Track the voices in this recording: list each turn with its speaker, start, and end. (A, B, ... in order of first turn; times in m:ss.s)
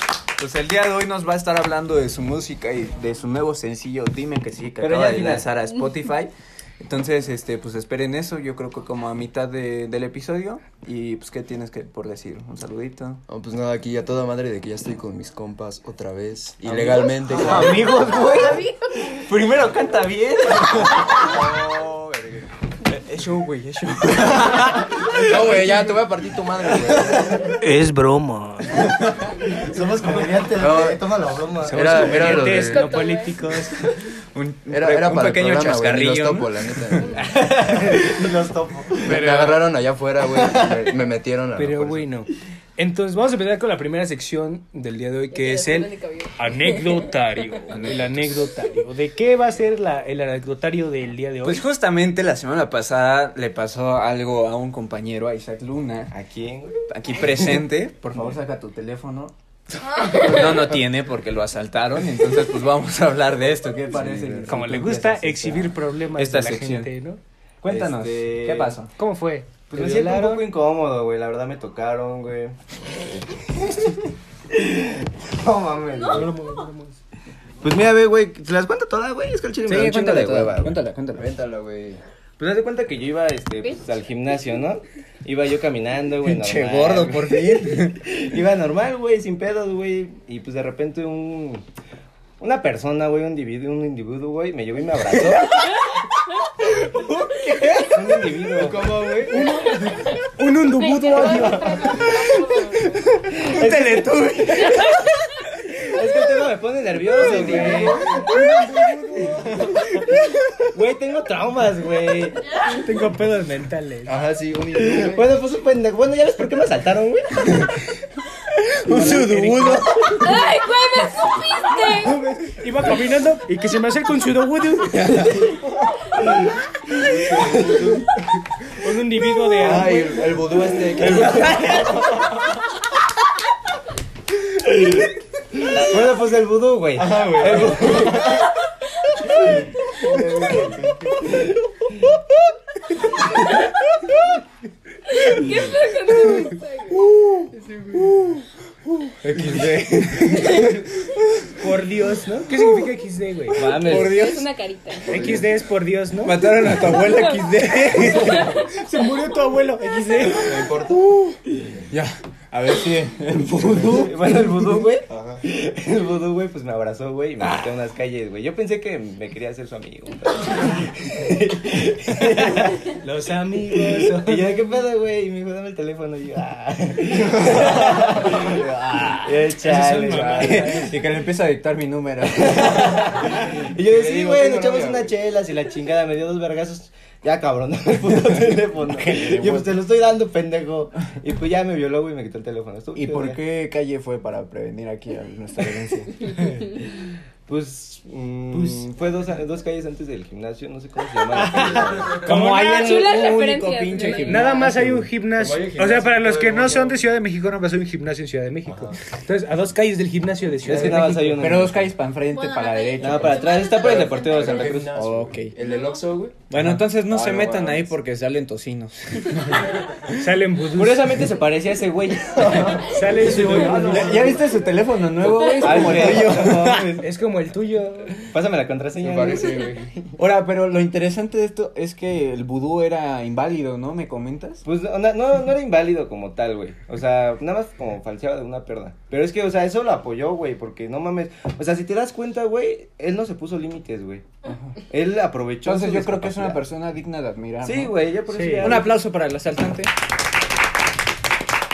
0:00.4-0:13.2 A
0:04.8-0:05.5 B
0:13.3-0:18.1 C
0:16.7-0:21.5 A
0:17.9-0:19.1 D
0:21.1-0:22.5 C
0:22.9-0:25.7 A
0:25.0-0:27.7 C
0:27.8-0:28.4 E
0:28.7-0:29.4 A
0:29.4-0:32.0 B
0:30.6-0:31.1 C
0:31.6-0:33.9 E
0:31.7-0:32.9 C
0:32.2-0:33.5 D
0:34.3-0:37.0 A
0:34.7-0:37.3 C
0:37.0-0:37.4 D
0:37.2-0:39.3 B
0:37.7-0:38.2 E
0:39.0-0:42.1 C
0:39.1-0:39.6 E
0:40.4-0:40.8 B
0:41.6-0:51.6 E
0:45.3-0:47.1 D
0:47.6-0:48.3 A
0:51.4-0:56.1 A
0:56.1-0:56.8 B
0:56.9-1:06.9 A
1:03.9-1:04.6 C
1:04.5-1:07.2 E
1:07.6-1:08.9 A
1:07.7-1:08.8 B
1:09.0-1:10.5 E
1:09.7-1:16.3 B
1:15.9-1:16.5 D
1:16.1-1:17.0 E
1:17.6-1:20.8 B
1:19.7-1:21.3 A
1:21.2-1:22.0 C
1:22.4-1:31.6 B
1:23.6-1:23.9 D
1:26.2-1:28.0 A
1:32.4-1:35.7 B
1:35.2-1:35.8 A
1:36.6-1:38.2 A
1:37.9-1:38.9 B
1:38.6-1:39.6 C
1:39.3-1:42.2 E
1:40.8-1:42.8 D
1:41.2-1:41.7 B
1:42.1-1:45.1 A
1:43.4-1:44.6 B
1:43.4-1:44.6 E
1:45.8-1:48.3 B
1:47.1-1:49.7 E
1:49.9-1:50.4 A
1:50.7-1:52.4 B
1:52.6-1:54.2 E
1:54.0-1:55.3 C
1:54.8-1:57.6 B
1:57.5-1:57.8 A
1:58.5-2:00.3 A
1:58.9-2:00.2 E
2:00.1-2:02.2 D
2:02.1-2:02.5 A
2:02.5-2:05.5 E
2:05.0-2:05.4 B
2:07.0-2:08.0 C
2:07.2-2:08.0 B
2:08.6-2:10.7 E
2:09.5-2:12.3 C
2:11.0-2:11.9 B
2:11.2-2:11.9 A
2:14.6-2:15.0 B
2:15.6-2:18.5 B
2:17.0-2:18.5 C
2:20.0-2:21.4 C
2:21.2-2:22.1 B
2:25.1-2:27.8 D
2:26.1-2:31.6 A
2:30.4-2:30.7 D
2:31.6-2:33.9 E
2:33.5-2:34.5 A
2:33.5-2:34.3 B
2:33.9-2:35.2 D
2:35.0-2:35.5 C
2:35.1-2:36.5 E
2:36.2-2:38.6 A
2:36.7-2:38.7 D
2:38.1-2:40.7 E
2:40.3-2:41.8 C
2:41.9-2:44.2 A
2:43.9-2:52.8 B
2:45.1-2:45.5 C
2:52.9-2:54.6 E
2:53.7-2:58.6 B
2:57.6-2:59.5 A
2:59.2-3:00.9 B
2:59.5-3:01.0 E
3:00.3-3:03.1 A
3:02.4-3:13.4 B
3:03.8-3:05.2 C
3:08.8-3:09.7 A
3:13.0-3:16.4 A
3:17.5-3:22.3 B
3:18.5-3:18.9 E
3:21.3-3:23.0 E
3:22.2-3:25.1 A
3:22.3-3:24.9 D
3:24.2-3:31.6 E
3:25.4-3:27.0 C
3:28.6-3:29.0 C
3:30.6-3:31.9 B
3:31.4-3:33.6 A
3:32.3-3:34.5 D
3:33.0-3:35.0 B
3:33.7-3:38.0 C
3:34.9-3:35.6 A
3:36.5-3:40.2 A
3:40.1-3:41.2 E
3:40.8-3:44.1 B
3:42.4-3:44.6 C
3:42.7-3:44.3 E
3:43.7-3:46.9 A
3:45.4-3:47.1 B
3:47.0-3:48.2 E
3:48.2-3:49.8 B
3:49.0-3:49.9 C
3:50.2-3:54.6 A
3:54.6-4:04.3 B
4:04.5-4:04.8 A
4:04.9-4:06.6 B
4:05.6-4:07.9 A
4:07.6-4:09.0 B
4:08.3-4:08.8 E
4:08.6-4:09.9 A